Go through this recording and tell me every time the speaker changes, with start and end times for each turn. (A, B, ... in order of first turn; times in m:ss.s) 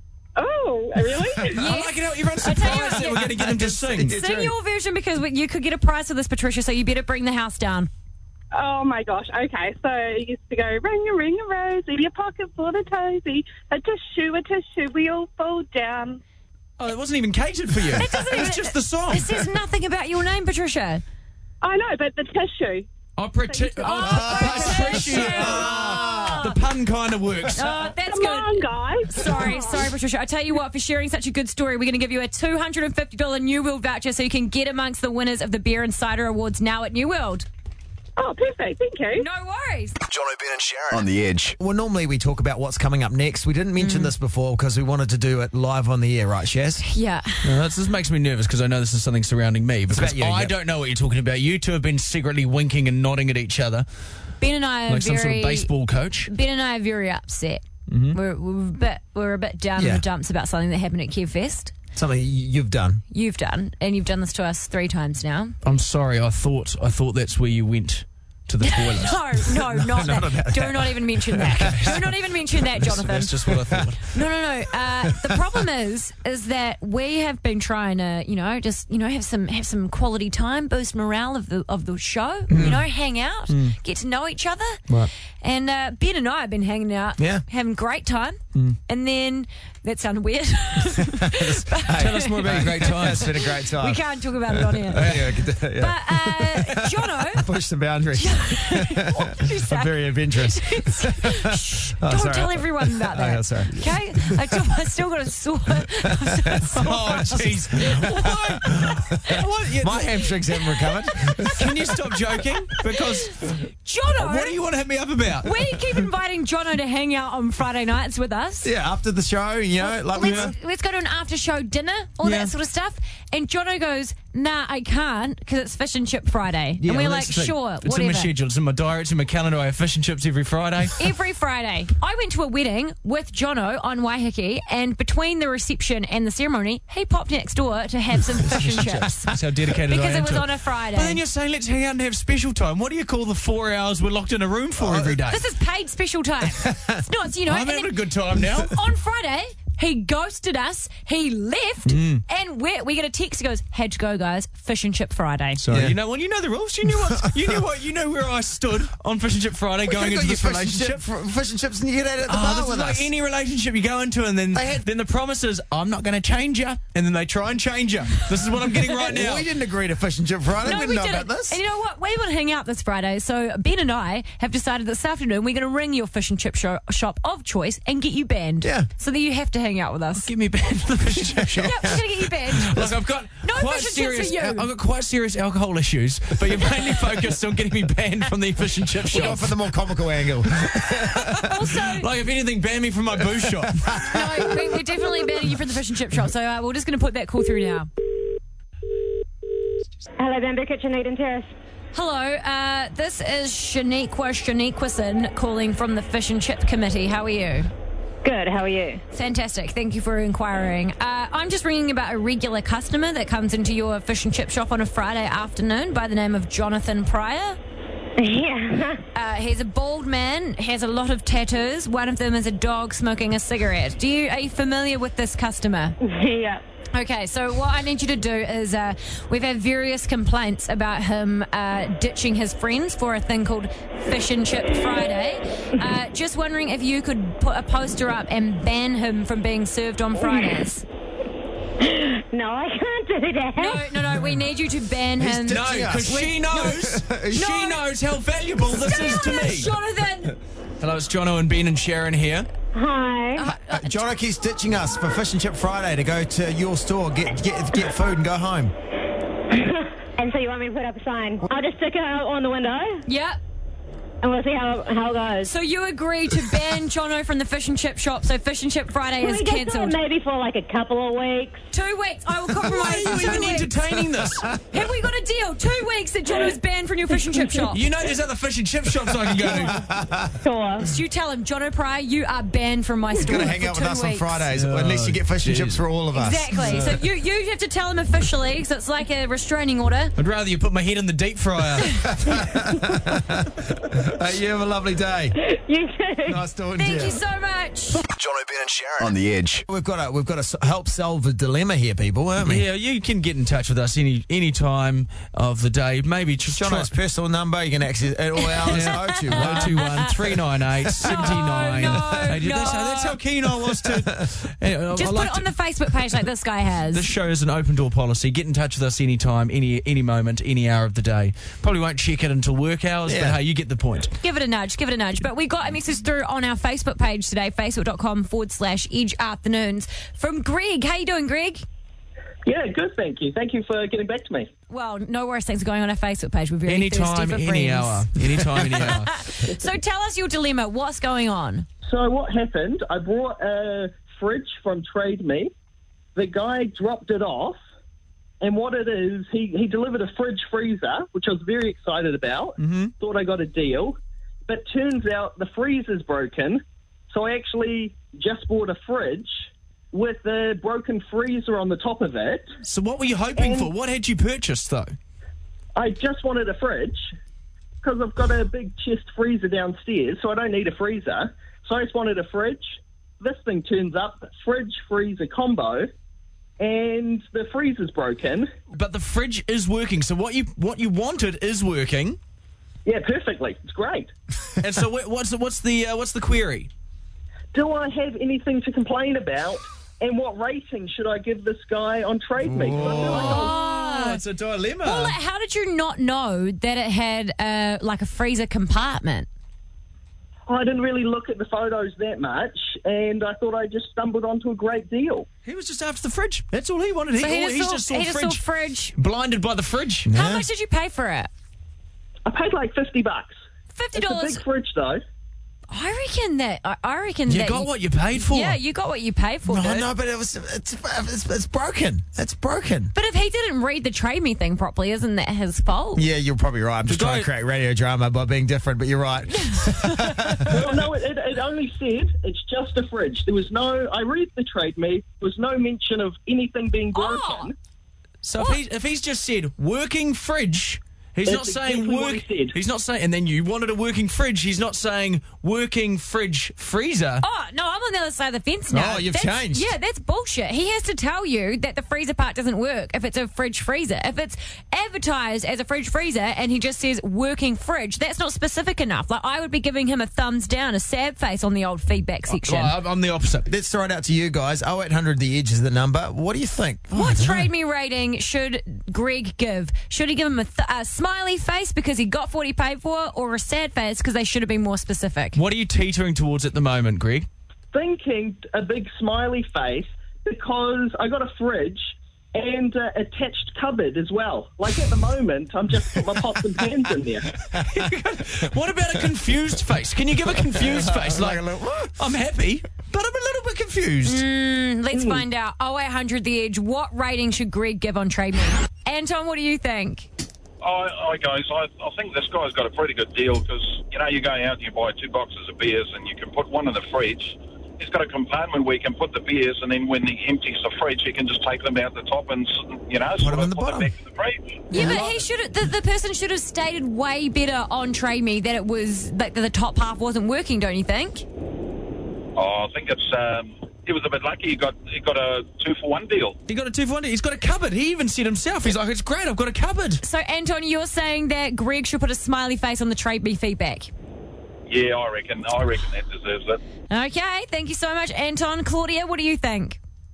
0:00.4-0:01.7 A
0:01.5-0:03.3 B
0:01.5-0:04.1 C
0:02.7-0:04.5 D
0:04.0-0:07.9 B
0:08.5-0:16.2 A
0:16.8-0:19.4 C
0:18.0-0:21.0 B
0:21.6-0:22.9 A
0:23.2-0:27.7 C
0:23.5-0:24.7 A
0:23.8-0:26.4 B
0:24.0-0:26.5 D
0:27.5-0:37.5 B
0:28.0-0:29.8 A
0:38.2-0:39.2 A
0:39.2-0:40.0 B
0:40.1-0:41.6 E
0:41.6-0:46.8 D
0:43.8-0:44.1 B
0:46.8-0:47.4 B
0:47.4-0:53.8 C
0:49.9-0:50.5 D
0:54.4-0:55.7 B
0:54.9-0:56.3 C
0:56.3-1:01.7 B
0:57.9-0:58.2 C
0:59.8-1:00.0 D
1:01.9-1:03.0 D
1:03.1-1:05.5 B
1:05.6-1:09.4 C
1:08.6-1:13.3 B
1:09.7-1:12.0 D
1:11.4-1:12.1 C
1:12.8-1:14.1 C
1:13.4-1:13.9 D
1:14.1-1:24.8 B
1:15.0-1:15.6 D
1:22.5-1:22.8 D
1:23.5-1:23.8 C
1:25.4-1:35.1 B
1:27.2-1:27.4 D
1:31.0-1:44.6 D
1:32.0-1:33.3 C
1:35.0-1:35.3 C
1:35.7-1:37.4 B
1:38.1-1:48.3 B
1:46.0-1:51.8 D
1:46.7-1:50.3 C
1:51.4-1:53.6 C
1:53.8-1:54.6 B
1:54.1-1:55.5 C
1:55.4-1:58.7 B
1:58.6-2:00.5 D
1:59.8-2:08.3 B
2:00.2-2:00.5 C
2:02.2-2:02.5 C
2:06.8-2:07.5 D
2:07.4-2:11.0 C
2:11.0-2:19.3 B
2:18.4-2:25.4 C
2:19.9-2:21.2 B
2:24.8-2:25.2 D
2:25.3-2:27.9 B
2:26.5-2:27.0 D
2:27.5-2:28.7 C
2:28.6-2:35.6 B
2:31.8-2:32.2 C
2:35.6-2:41.0 C
2:35.7-2:36.0 D
2:39.8-2:43.1 D
2:42.3-2:49.5 C
2:44.5-2:44.8 D
2:48.9-2:51.6 D
2:50.6-3:00.3 B
2:58.6-2:58.9 D
3:00.2-3:09.5 C
3:01.2-3:02.0 D
3:01.6-3:02.7 B
3:03.4-3:04.7 B
3:09.1-3:11.5 D
3:10.6-3:13.8 C
3:11.4-3:12.0 B
3:13.4-3:14.8 D
3:14.0-3:17.9 B
3:20.2-3:21.5 F
3:21.9-3:27.7 B
3:28.2-3:29.0 F
3:29.1-3:37.6 B
3:38.2-3:39.0 F
3:39.1-3:46.0 B
3:46.0-3:46.6 F
3:46.9-4:00.8 B
4:02.0-4:03.8 F
4:03.6-4:06.7 B
4:05.2-4:07.6 D
4:05.5-4:09.7 C
4:07.3-4:07.8 B
4:08.7-4:10.4 B
4:10.8-4:12.5 C
4:12.8-4:13.4 F
4:13.4-4:14.0 B
4:13.4-4:18.7 D
4:20.2-4:23.0 F
4:23.0-4:23.4 B
4:24.2-4:25.5 F
4:25.4-4:30.0 B
4:29.2-4:31.6 F
4:31.7-4:33.7 B
4:32.6-4:34.5 C
4:34.4-4:34.8 D
4:34.7-4:37.8 B
4:37.7-4:39.8 C
4:39.3-4:40.4 D
4:40.4-4:40.8 F
4:40.8-4:44.4 B
4:43.1-4:46.8 D
4:44.5-4:45.8 C
4:46.1-4:50.1 B
4:46.6-4:47.0 C
4:50.2-4:52.0 C
4:52.0-4:55.4 D
4:55.4-4:56.4 F
4:56.2-4:57.2 D
4:56.8-4:58.0 B
4:58.1-4:59.6 E
4:59.7-5:02.6 D
5:02.4-5:06.9 C
5:06.4-5:10.1 D
5:08.7-5:15.5 C
5:09.3-5:10.1 B
5:11.0-5:13.2 B
5:11.0-5:12.4 D
5:13.4-5:14.3 D
5:15.0-5:17.1 B
5:16.9-5:24.1 C
5:23.1-5:23.4 D
5:24.2-5:31.6 B
5:32.4-5:34.5 G
5:34.7-5:41.6 B
5:36.7-5:39.2 C
5:41.8-5:45.5 G
5:46.2-5:47.6 G
5:48.4-6:02.5 G
5:52.6-5:52.9 C
6:02.6-6:04.9 C
6:03.4-6:03.7 G
6:05.8-6:07.1 G
6:07.8-6:15.9 G
6:16.6-6:18.5 G
6:18.7-6:22.2 C
6:22.8-6:24.1 G
6:24.6-6:26.7 C
6:27.5-6:33.5 G
6:32.4-6:33.4 D
6:32.8-6:35.2 C
6:33.0-6:34.2 B
6:34.8-6:39.3 B
6:40.5-6:45.3 G
6:45.4-6:48.4 C
6:47.2-6:48.9 B
6:48.9-6:50.1 C
6:50.0-6:50.5 D
6:50.1-6:51.3 B
6:52.2-6:53.4 G
6:53.7-6:54.4 B
6:53.9-6:55.0 G
6:55.7-6:59.9 B
6:57.3-6:58.6 C
6:59.5-7:02.9 D
7:02.9-7:06.0 B
7:06.0-7:10.7 D
7:06.9-7:07.3 C
7:09.3-7:10.5 B
7:10.5-7:17.5 G
7:16.9-7:17.5 B
7:18.2-7:27.2 C
7:21.2-7:22.6 G
7:27.2-7:42.7 B
7:28.7-7:29.7 D
7:42.3-7:43.5 C
7:43.5-7:47.5 D
7:46.9-7:55.4 B
7:55.3-7:57.3 C
7:57.7-8:07.3 G
8:07.5-8:07.9 D
8:07.5-8:14.2 C
8:10.5-8:12.0 D
8:14.0-8:20.1 B
8:14.9-8:15.2 G
8:20.6-8:34.8 H
8:33.2-8:33.9 D
8:34.7-8:41.2 B
8:34.7-8:35.1 D
8:42.4-8:46.4 H
8:46.5-8:50.0 C
8:50.0-8:53.9 B
8:54.7-8:56.6 H
8:56.9-8:59.8 B